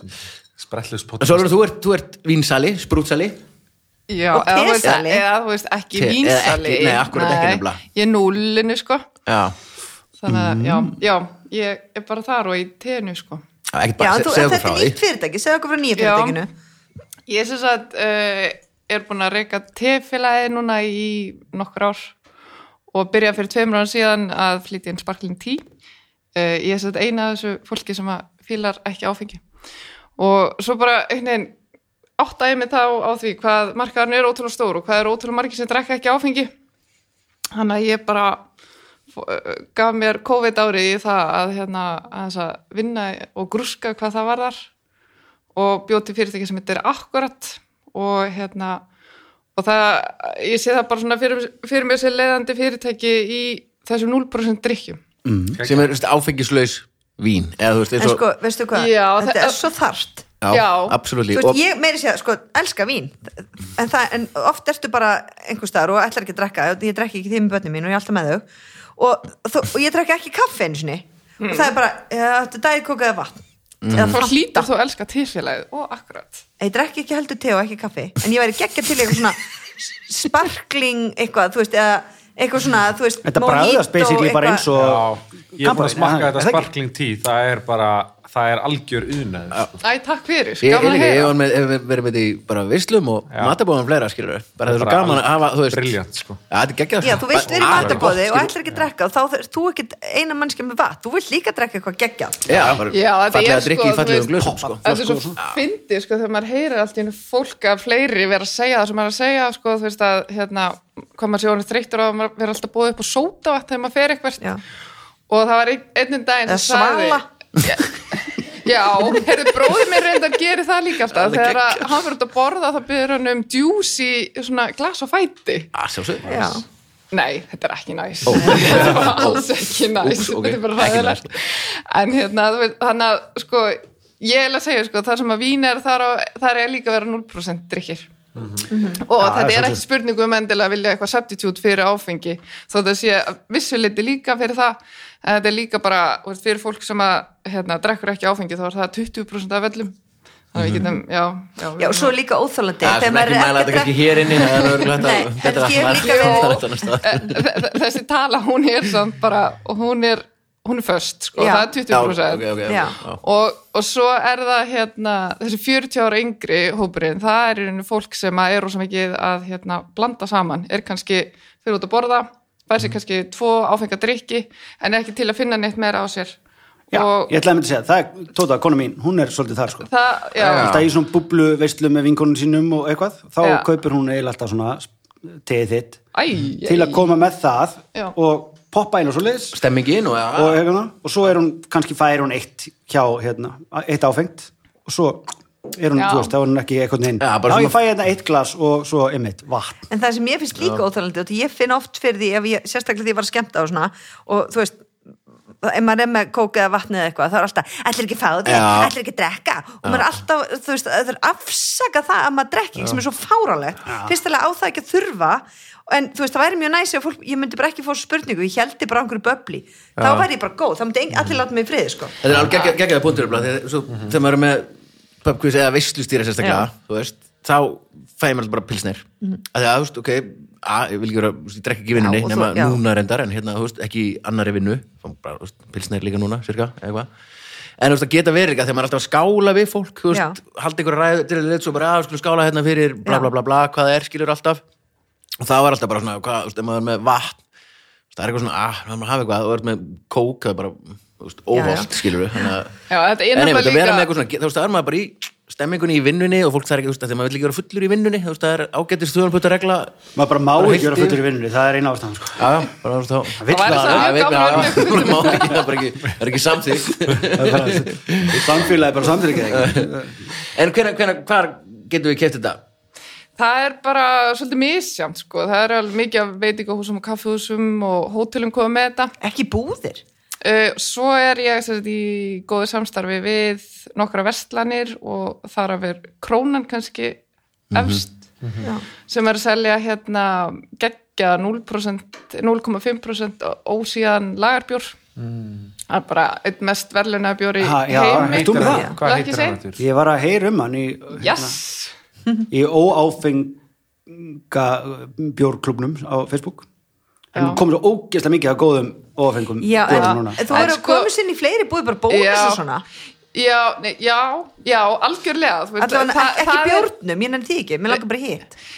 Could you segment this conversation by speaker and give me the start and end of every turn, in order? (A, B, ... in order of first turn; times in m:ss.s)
0:00.6-0:01.5 A
0:01.2-0:03.4 B
0:04.1-0:09.0 C
0:04.3-0:05.2 D
0:05.9-0:07.8 B
0:09.2-0:09.6 B
0:10.2-0:13.4 C
0:10.3-0:10.9 E
0:13.7-0:15.0 B
0:14.0-0:16.5 D
0:16.0-0:16.4 C
0:17.3-0:22.1 C
0:22.9-0:25.6 C
0:26.3-0:29.4 C
0:30.2-0:31.5 C
0:32.2-0:36.5 C
0:37.5-0:38.4 C
0:39.1-0:44.6 C
0:45.5-0:48.8 C
0:49.5-0:55.0 C
0:55.2-0:55.6 E
0:55.6-0:55.9 A
0:55.6-0:58.2 B
0:58.0-1:00.3 D
0:58.7-0:59.6 C
1:00.4-1:01.6 B
1:00.5-1:01.0 C
1:01.3-1:08.4 D
1:09.0-1:14.7 D
1:11.4-1:11.7 C
1:13.8-1:14.2 B
1:13.9-1:16.4 C
1:16.6-1:24.7 D
1:23.2-1:26.7 E
1:24.7-1:29.7 A
1:29.8-1:31.3 C
1:30.6-1:35.9 B
1:33.3-1:33.6 A
1:34.6-1:36.4 A
1:36.5-1:38.5 B
1:37.0-1:42.4 D
1:37.6-1:38.1 A
1:42.5-1:44.8 B
1:42.5-1:42.8 E
1:42.9-1:54.4 C
1:44.4-1:45.4 E
1:45.4-1:45.6 B
1:55.3-2:05.7 C
1:56.5-1:57.2 D
2:01.1-2:02.0 B
2:05.7-2:06.6 B
2:06.2-2:06.6 D
2:07.1-2:18.1 C
2:08.2-2:11.3 B
2:18.4-2:18.6 A
2:18.7-2:19.0 D
2:18.9-2:29.9 C
2:19.2-2:19.8 E
2:30.5-2:32.1 C
2:30.6-2:30.8 B
2:31.8-2:36.9 D
2:32.8-2:37.5 B
2:36.0-2:56.4 C
2:41.4-2:41.7 D
2:41.9-2:43.2 B
2:42.6-2:43.0 D
2:56.9-2:57.4 C
2:56.9-3:06.0 E
2:59.8-3:00.8 C
3:00.4-3:00.9 B
3:03.4-3:03.7 C
3:06.1-3:07.0 C
3:06.6-3:09.6 E
3:09.5-3:10.6 B
3:10.3-3:19.8 E
3:16.0-3:16.3 C
3:17.2-3:17.7 B
3:19.9-3:24.8 D
3:25.6-3:42.2 D
3:28.4-3:28.9 B
3:33.9-3:34.1 E
3:40.0-3:40.3 B
3:42.2-3:44.7 B
3:45.2-3:57.1 B
3:46.4-3:46.7 D
3:52.0-3:52.8 D
3:57.8-4:04.6 B
4:00.1-4:00.4 D
4:03.0-4:03.3 D
4:05.4-4:07.4 B
4:08.1-4:12.8 B
4:11.5-4:12.5 D
4:12.9-4:14.1 C
4:13.3-4:20.0 B
4:20.1-4:22.5 E
4:20.5-4:21.2 B
4:22.4-4:28.6 B
4:23.4-4:24.2 E
4:23.5-4:25.7 C
4:27.2-4:30.1 E
4:29.4-4:30.0 B
4:30.5-4:32.6 B
4:33.4-4:39.1 C
4:39.2-4:40.0 D
4:40.4-4:47.2 C
4:47.7-4:48.0 B
4:47.7-4:48.2 C
4:49.0-4:55.0 C
4:55.2-4:55.7 A
4:55.9-4:59.6 C
4:57.6-4:58.9 E
4:58.2-4:59.8 A
4:58.7-4:58.9 D
4:59.8-5:01.5 E
5:01.2-5:01.9 C
5:02.5-5:06.6 E
5:07.3-5:10.4 E
5:07.4-5:07.6 C
5:09.6-5:12.8 D
5:09.9-5:11.1 C
5:12.1-5:12.6 C
5:13.3-5:16.9 C
5:15.8-5:18.5 D